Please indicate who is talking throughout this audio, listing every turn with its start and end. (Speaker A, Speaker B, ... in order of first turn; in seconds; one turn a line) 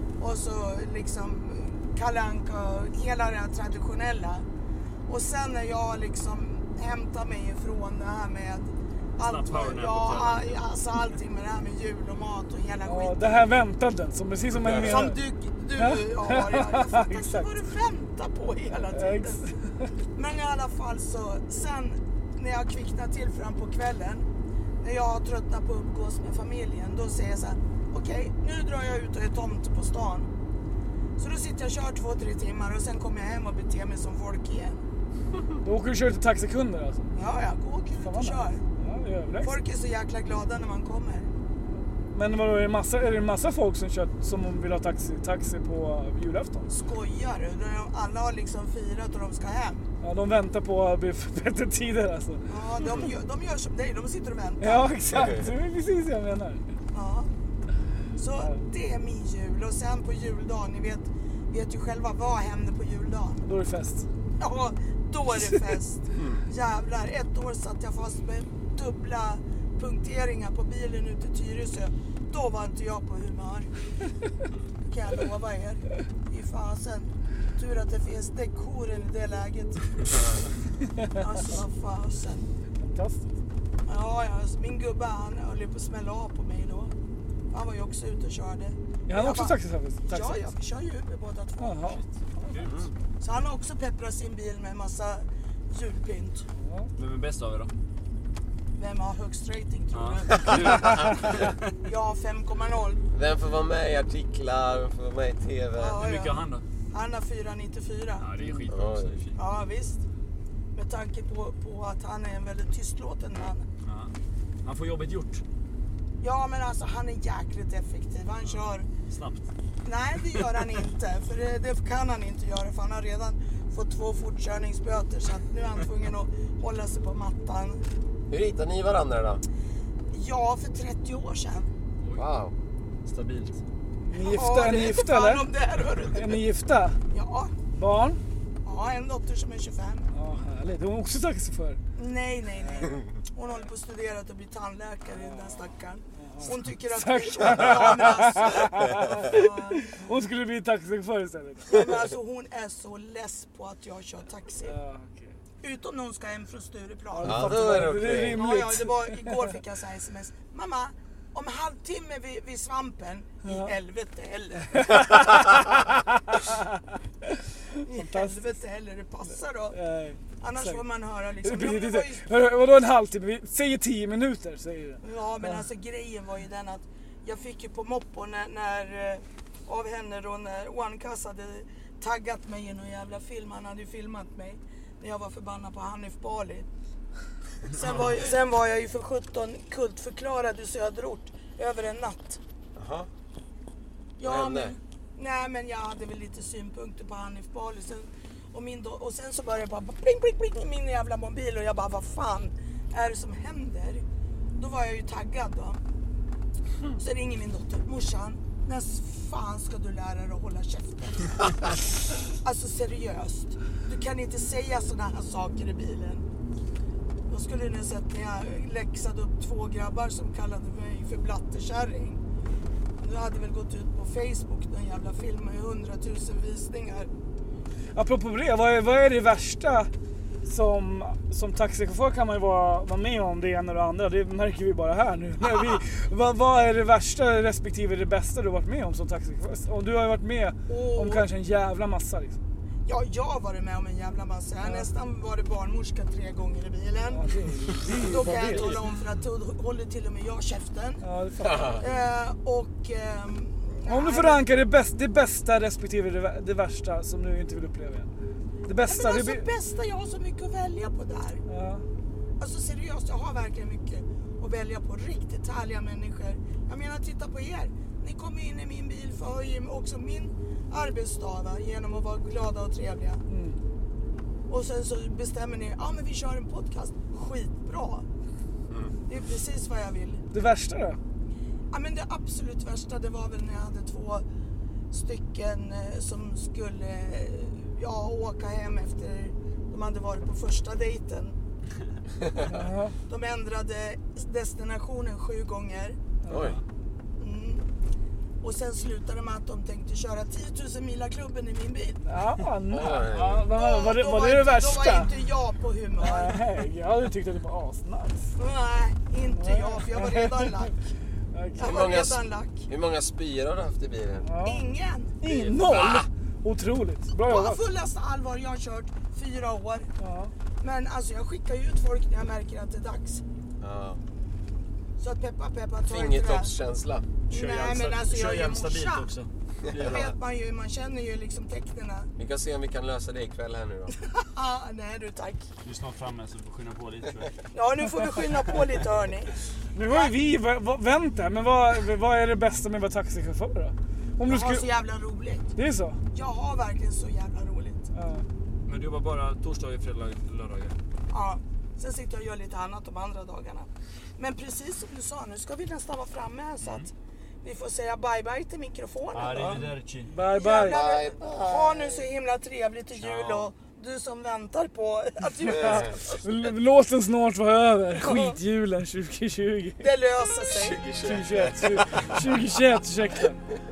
Speaker A: 0.2-4.4
Speaker A: 5.1-13.4
Speaker B: 9.2-10.6
Speaker C: 12.8-15.2
Speaker D: 14.6-14.9
Speaker A: 14.8-19.4
Speaker C: 15.8-17.5
Speaker C: 18.9-19.7
Speaker A: 20.1-24.3
Speaker A: 24.8-30.3
Speaker A: 31.2-34.8
Speaker C: 35.6-37.1
Speaker A: 37.1-38.6
Speaker C: 38.0-39.5
Speaker A: 39.4-41.3
Speaker C: 42.1-46.7
Speaker A: 46.7-49.9
Speaker C: 50.0-53.0
Speaker A: 52.5-54.9
Speaker C: 54.6-56.6
Speaker A: 56.9-57.3
Speaker A: 58.2-63.4
Speaker C: 63.4-64.1
Speaker A: 64.4-73.7
Speaker D: 66.1-66.4
Speaker A: 74.8-80.1
Speaker A: 81.1-82.5
Speaker C: 82.8-83.3
Speaker A: 83.8-86.9
Speaker A: 87.5-92.1
Speaker C: 89.1-90.4
Speaker C: 91.6-92.7
Speaker D: 92.6-92.9
Speaker A: 93.2-96.5
Speaker C: 96.5-96.9
Speaker B: 96.9-97.7
Speaker A: 98.8-100.9
Speaker B: 99.9-101.7
Speaker A: 101.8-103.1
Speaker D: 103.1-106.0
Speaker A: 105.7-108.2
Speaker B: 106.0-106.6
Speaker B: 108.2-109.4
Speaker D: 108.7-109.1
Speaker A: 109.3-110.0
Speaker A: 110.7-113.7
Speaker B: 113.8-115.4
Speaker A: 116.2-118.9
Speaker B: 118.4-119.5
Speaker A: 119.8-127.8
Speaker D: 128.3-129.4
Speaker A: 130.1-131.7
Speaker D: 132.2-132.5
Speaker B: 133.0-133.6
Speaker C: 134.1-135.5
Speaker A: 134.1-136.4
Speaker C: 136.1-137.0
Speaker A: 137.1-137.5
Speaker C: 137.7-138.2
Speaker A: 138.6-140.1
Speaker C: 140.1-141.8
Speaker A: 141.9-149.9
Speaker C: 145.1-151.9
Speaker A: 151.7-154.8
Speaker C: 154.6-155.3
Speaker A: 155.6-165.0
Speaker C: 157.1-159.3
Speaker D: 157.2-158.4
Speaker C: 163.4-163.7
Speaker C: 164.7-166.6
Speaker A: 167.8-169.8
Speaker C: 167.9-168.4
Speaker C: 169.7-170.8
Speaker A: 170.4-172.3
Speaker C: 171.4-175.4
Speaker A: 175.0-186.7
Speaker A: 187.7-192.4
Speaker D: 192.8-193.1
Speaker A: 194.2-204.0
Speaker D: 194.2-194.8
Speaker A: 204.6-205.8
Speaker A: 207.0-211.3
Speaker A: 212.4-216.2
Speaker A: 217.3-222.2
Speaker A: 223.0-227.1
Speaker C: 227.9-229.9
Speaker C: 230.4-242.4
Speaker A: 240.7-241.3
Speaker A: 242.8-247.2
Speaker C: 244.6-244.9
Speaker C: 247.1-248.8
Speaker A: 247.9-251.0
Speaker C: 251.0-251.8
Speaker D: 251.4-251.8
Speaker A: 251.8-254.4
Speaker C: 253.9-258.1
Speaker C: 258.6-259.5
Speaker A: 258.8-261.4
Speaker C: 261.5-261.8
Speaker A: 262.4-273.2
Speaker C: 273.3-273.6
Speaker A: 274.5-278.0
Speaker A: 279.1-280.2
Speaker C: 280.3-281.0
Speaker A: 281.7-284.2
Speaker A: 284.9-291.3
Speaker C: 292.4-292.9
Speaker A: 293.1-296.0
Speaker C: 296.3-296.5
Speaker D: 296.3-296.6
Speaker A: 297.2-297.6
Speaker A: 298.4-302.0
Speaker C: 302.0-305.1
Speaker D: 302.7-303.4
Speaker A: 303.5-306.4
Speaker C: 306.0-308.3
Speaker A: 308.4-310.7
Speaker C: 309.3-310.7
Speaker C: 311.3-311.8
Speaker A: 311.6-312.6
Speaker D: 311.6-314.2
Speaker C: 314.2-314.6
Speaker A: 314.4-315.1
Speaker C: 315.2-317.6
Speaker B: 315.3-315.9
Speaker A: 317.1-319.9
Speaker C: 320.0-320.3
Speaker A: 320.6-323.2
Speaker D: 323.6-324.0
Speaker A: 325.0-326.5
Speaker D: 325.9-327.1
Speaker A: 327.3-329.1
Speaker B: 327.3-330.1
Speaker D: 329.7-330.1
Speaker A: 329.8-332.1
Speaker D: 332.2-333.9
Speaker A: 334.1-335.5
Speaker B: 335.6-337.4
Speaker A: 337.5-339.3
Speaker C: 339.7-344.6
Speaker A: 339.9-340.1
Speaker A: 344.2-345.5
Speaker C: 345.6-346.0
Speaker A: 346.1-347.9
Speaker C: 347.9-348.2
Speaker B: 348.6-350.8
Speaker A: 351.1-356.9
Speaker B: 356.6-356.9
Speaker A: 357.4-359.6
Speaker B: 359.1-360.1
Speaker C: 360.1-360.8
Speaker A: 360.2-366.2
Speaker D: 360.6-362.1
Speaker B: 362.9-363.5
Speaker C: 365.4-369.9
Speaker A: 368.0-368.4
Speaker A: 369.8-370.8
Speaker D: 370.5-372.4
Speaker C: 371.0-373.4